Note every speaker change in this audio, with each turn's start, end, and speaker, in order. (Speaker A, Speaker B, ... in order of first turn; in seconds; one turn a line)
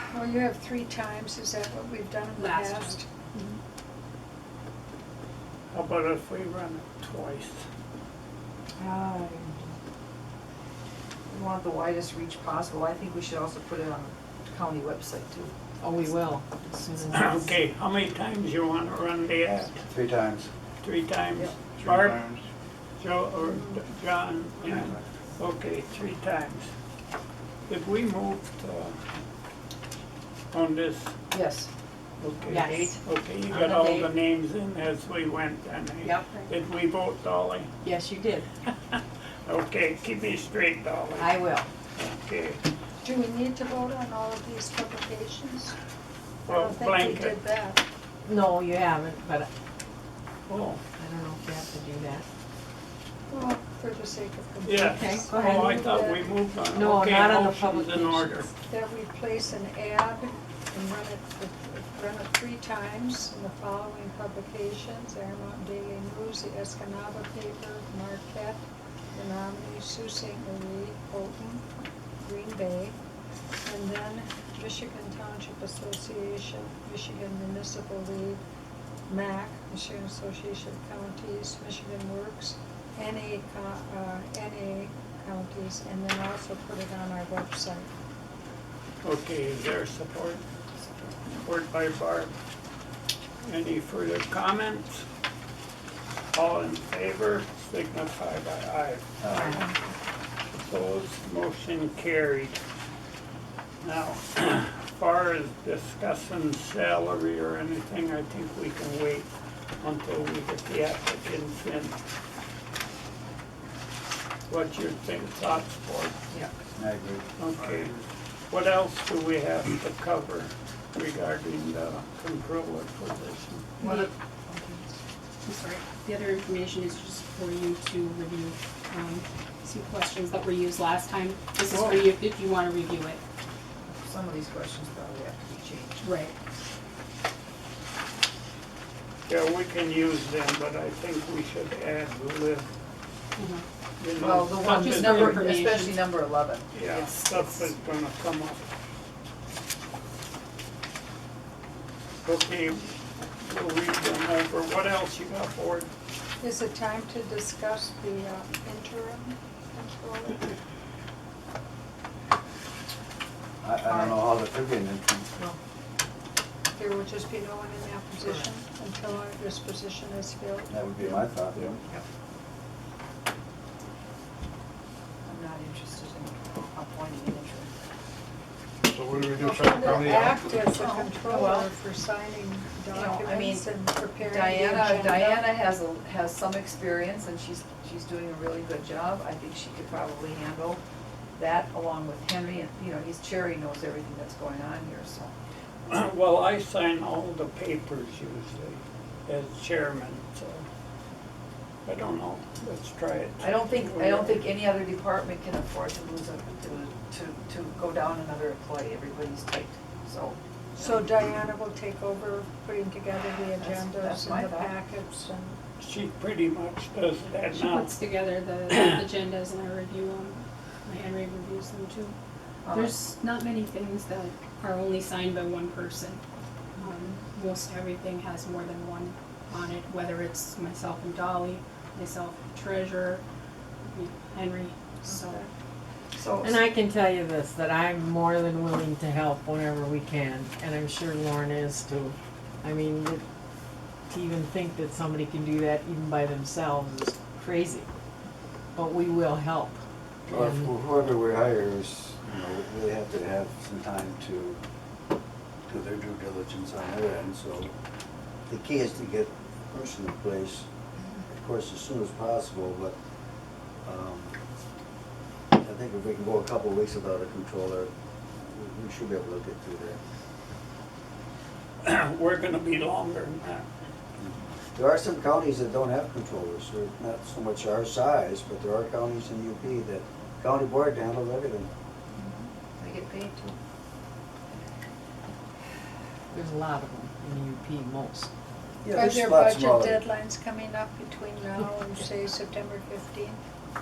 Speaker A: 0.1-3.1
Speaker B: 2.4-3.5
Speaker C: 5.7-7.6
Speaker D: 8.8-9.7
Speaker E: 11.3-15.5
Speaker D: 15.8-17.5
Speaker C: 17.1-19.8
Speaker F: 19.9-20.5
Speaker C: 20.8-22.3
Speaker G: 21.8-22.4
Speaker C: 23.0-26.7
Speaker C: 27.7-29.0
Speaker C: 30.5-31.1
Speaker E: 31.3-31.7
Speaker C: 32.2-37.7
Speaker D: 32.4-34.1
Speaker D: 36.0-36.4
Speaker D: 37.8-38.5
Speaker C: 39.5-42.6
Speaker D: 41.1-41.7
Speaker A: 43.0-45.7
Speaker A: 46.5-47.8
Speaker C: 46.5-47.4
Speaker D: 48.2-49.5
Speaker C: 50.5-50.8
Speaker D: 51.0-52.2
Speaker A: 53.3-56.3
Speaker C: 54.6-58.5
Speaker D: 54.8-55.8
Speaker D: 56.7-58.5
Speaker A: 58.5-68.6
Speaker A: 69.1-71.7
Speaker A: 72.2-73.0
Speaker A: 73.6-78.4
Speaker A: 79.1-87.9
Speaker C: 89.0-90.4
Speaker C: 91.4-92.3
Speaker C: 93.4-95.0
Speaker C: 96.3-99.6
Speaker F: 99.2-99.6
Speaker C: 100.5-102.6
Speaker C: 103.8-109.3
Speaker C: 109.8-111.9
Speaker C: 114.5-116.1
Speaker F: 116.8-117.2
Speaker C: 117.4-117.9
Speaker G: 117.6-117.9
Speaker C: 118.5-123.7
Speaker E: 123.8-124.8
Speaker B: 123.8-124.1
Speaker B: 125.4-133.2
Speaker C: 131.7-132.0
Speaker E: 133.9-136.1
Speaker B: 136.0-136.3
Speaker C: 139.3-142.7
Speaker B: 143.4-143.6
Speaker C: 144.0-145.4
Speaker E: 144.2-147.5
Speaker B: 144.6-146.1
Speaker C: 146.7-148.7
Speaker C: 152.2-152.9
Speaker C: 153.4-155.9
Speaker A: 156.4-160.5
Speaker F: 163.6-165.3
Speaker A: 166.7-170.7
Speaker F: 170.7-171.8
Speaker E: 175.2-177.7
Speaker G: 178.8-180.7
Speaker A: 179.1-185.6
Speaker E: 180.6-181.7
Speaker E: 182.9-183.7
Speaker E: 184.2-190.8
Speaker E: 191.4-195.3
Speaker C: 195.9-200.7
Speaker C: 201.8-204.5
Speaker E: 203.4-211.0
Speaker A: 210.8-215.6
Speaker E: 213.6-214.7
Speaker C: 215.8-217.9
Speaker B: 217.5-222.2
Speaker C: 218.7-219.0
Speaker E: 222.6-222.9
Speaker B: 222.7-226.2
Speaker B: 226.8-233.2
Speaker B: 233.9-235.4
Speaker A: 235.1-235.4
Speaker E: 236.1-236.6
Speaker D: 236.4-243.2
Speaker D: 244.1-247.9
Speaker D: 248.7-249.8
Speaker F: 250.3-254.6
Speaker D: 250.3-250.7
Speaker F: 255.7-257.7
Speaker F: 258.5-260.7
Speaker F: 261.3-262.9
Speaker F: 263.8-264.4
Speaker F: 265.5-267.9
Speaker F: 268.4-270.0
Speaker C: 271.8-273.6
Speaker F: 274.2-281.7
Speaker E: 282.1-283.6
Speaker D: 286.3-288.3
Speaker F: 288.8-290.0
Speaker A: 288.9-293.4